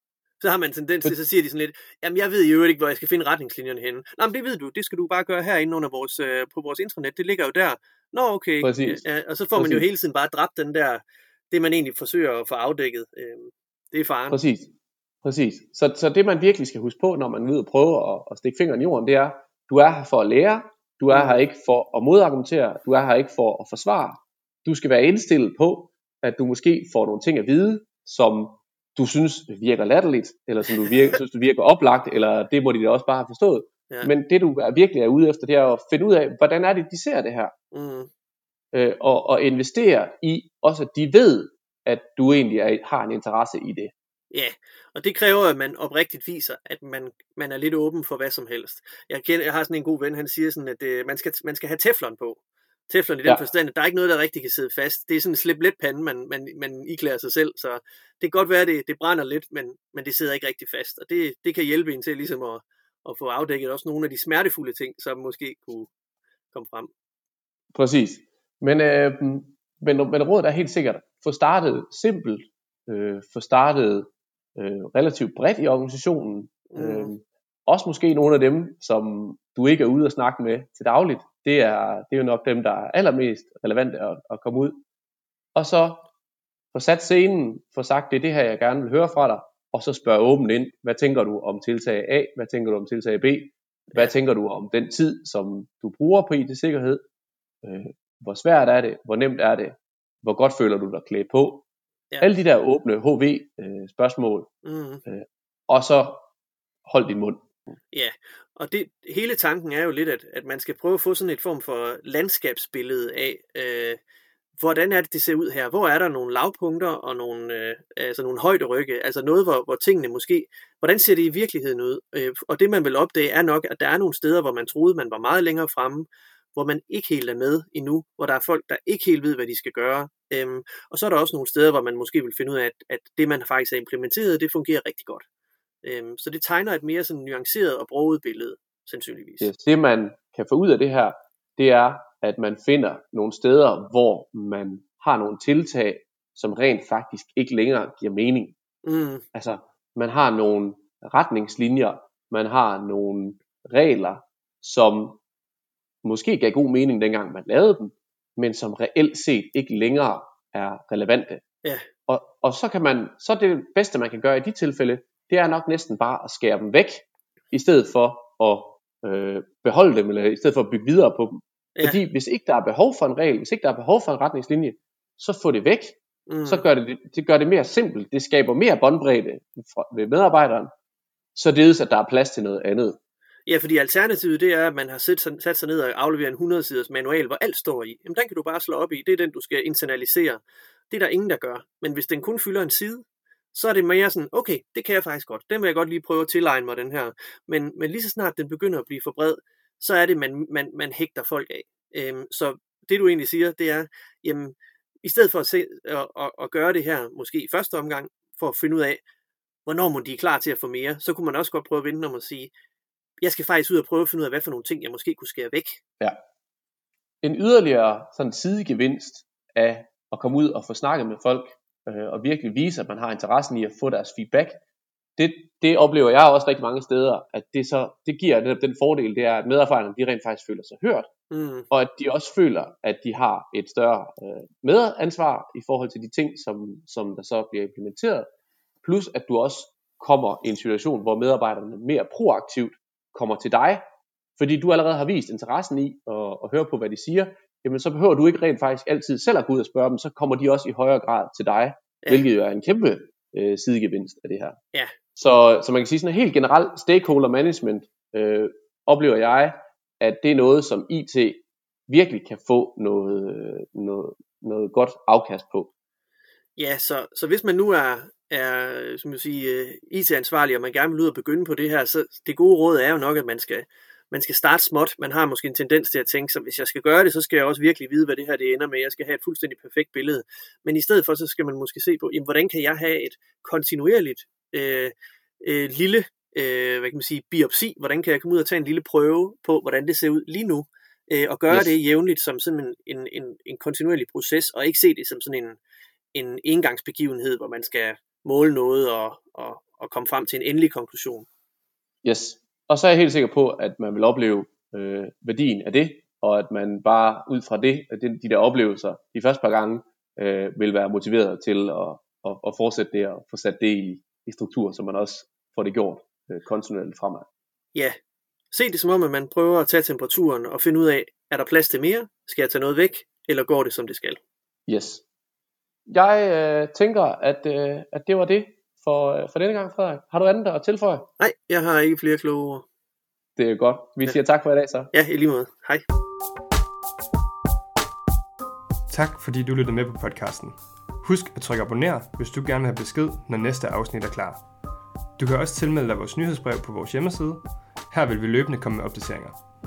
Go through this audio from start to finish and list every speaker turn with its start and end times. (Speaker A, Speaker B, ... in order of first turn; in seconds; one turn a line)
Speaker A: 0.4-14.4
Speaker B: 8.6-9.0
Speaker B: 9.6-9.9
Speaker B: 14.3-14.7
Speaker B: 15.2-37.5
Speaker A: 21.1-21.4
Speaker A: 37.7-38.1
Speaker B: 38.7-43.9
Speaker A: 44.3-65.9
Speaker A: 66.5-66.9
Speaker B: 67.7-84.8
Speaker A: 76.7-77.1
Speaker B: 85.5-86.0
Speaker B: 86.7-97.0
Speaker B: 97.6-101.7
Speaker B: 102.2-104.5
Speaker A: 104.7-105.0
Speaker B: 105.1-106.2
Speaker B: 106.9-107.5
Speaker A: 107.9-114.0
Speaker A: 114.6-135.2
Speaker A: 135.8-139.5
Speaker B: 139.4-148.6
Speaker A: 148.8-149.2
Speaker B: 149.3-155.2
Speaker B: 156.0-161.4
Speaker B: 162.1-180.7
Speaker A: 176.3-176.7
Speaker B: 181.3-183.0
Speaker A: 183.5-209.0
Speaker A: 209.7-212.5
Speaker A: 213.2-215.8
Speaker B: 217.2-224.6
Speaker B: 225.2-231.1
Speaker A: 231.3-231.7
Speaker B: 231.7-238.3
Speaker B: 238.8-243.8
Speaker B: 244.4-254.6
Speaker B: 255.2-265.7
Speaker A: 266.6-295.6
Speaker A: 296.1-301.3
Speaker B: 302.0-317.3
Speaker A: 318.5-324.2
Speaker B: 324.7-325.0
Speaker B: 325.9-331.1
Speaker A: 331.2-332.6
Speaker B: 333.4-334.9
Speaker A: 334.9-335.8
Speaker C: 338.9-344.4
Speaker C: 345.2-349.4